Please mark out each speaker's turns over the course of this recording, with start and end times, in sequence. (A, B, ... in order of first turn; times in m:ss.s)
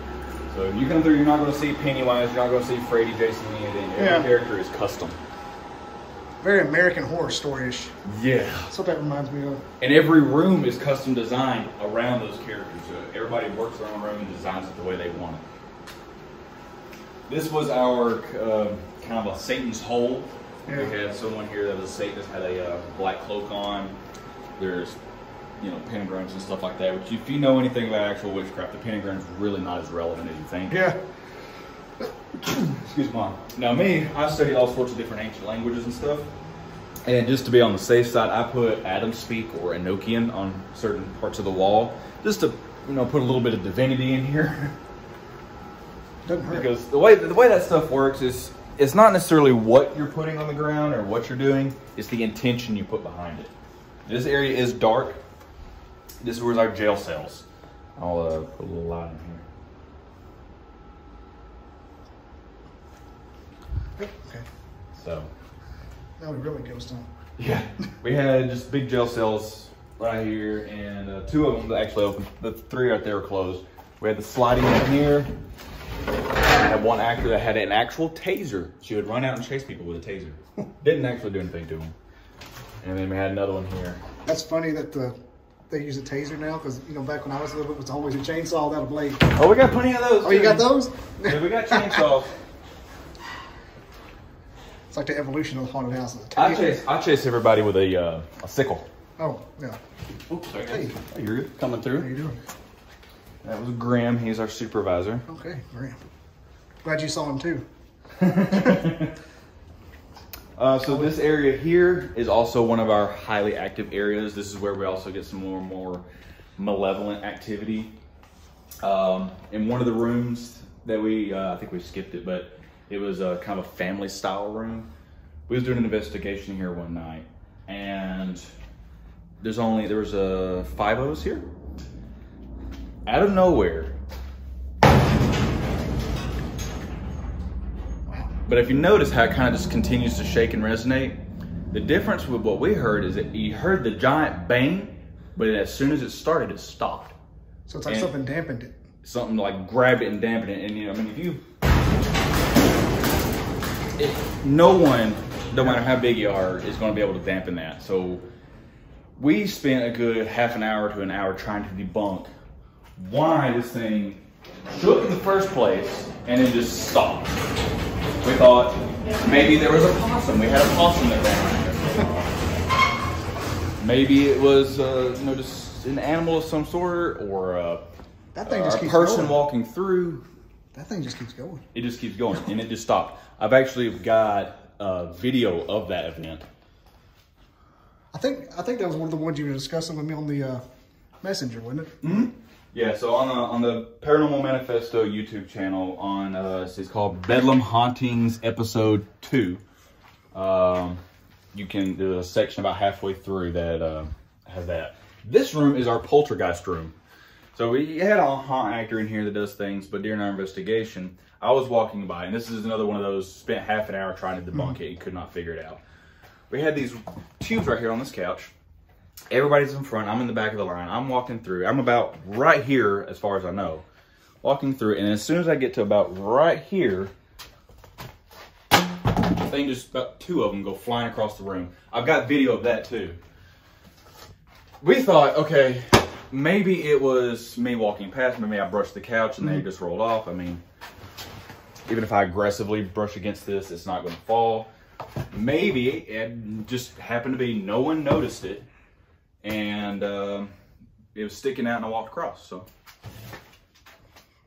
0:00.5-0:05.2 A
0:04.0-0:04.3 B
0:06.4-0:08.0 B
0:08.0-0:08.7 A
0:08.7-0:09.6 B
0:09.8-0:15.5 A
0:17.3-0:24.0 A
0:20.6-0:20.9 B
0:24.6-0:25.0 A
0:25.6-0:30.9 A
0:30.7-0:31.0 B
0:32.4-0:36.3 A
0:37.0-0:44.8 A
0:46.2-0:46.7 B
0:46.5-0:53.5 A
0:54.0-0:55.2 A
0:56.2-0:57.4 A
0:58.0-0:59.4 A
1:04.0-1:04.4 B
1:05.0-1:05.3 A
1:06.2-1:07.1 B
1:07.4-1:15.3 A
1:16.4-1:21.9 A
1:22.8-1:24.0 A
1:24.2-1:29.3 B
1:29.4-1:32.3 A
1:30.2-1:32.0 B
1:34.9-1:36.7 B
1:36.4-1:38.9 A
1:39.2-1:39.8 B
1:40.3-1:42.0 A
1:40.6-1:40.9 B
1:41.9-1:42.4 B
1:43.4-1:45.2 A
1:45.3-1:46.0 B
1:46.8-1:47.7 B
1:48.2-1:49.1 A
1:50.6-1:56.0 A
1:56.6-1:58.0 A
1:58.8-2:04.9 A
2:05.5-2:08.5 A
2:09.4-2:11.5 A
2:13.0-2:13.9 A
2:18.0-2:18.3 B
2:18.4-2:27.1 A
2:27.7-2:28.8 B
2:29.0-2:31.4 A
2:34.0-2:38.2 A
2:39.2-2:42.3 A
2:43.0-2:47.4 A
2:48.2-2:52.6 A
2:53.8-2:57.9 A
2:58.4-2:59.4 B
2:58.4-3:00.2 A
3:00.7-3:01.7 B
3:01.7-3:06.5 A
3:08.1-3:10.6 B
3:11.2-3:11.9 B
3:12.0-3:19.6 A
3:20.3-3:21.0 A
3:21.5-3:27.0 A
3:27.5-3:35.8 A
3:36.5-3:38.5 A
3:39.3-3:43.8 A
3:44.4-3:47.1 A
3:49.4-3:53.2 A
3:54.8-4:00.6 A
4:01.9-4:04.7 A
4:05.3-4:08.6 A
4:09.4-4:10.5 A
4:11.1-4:12.6 A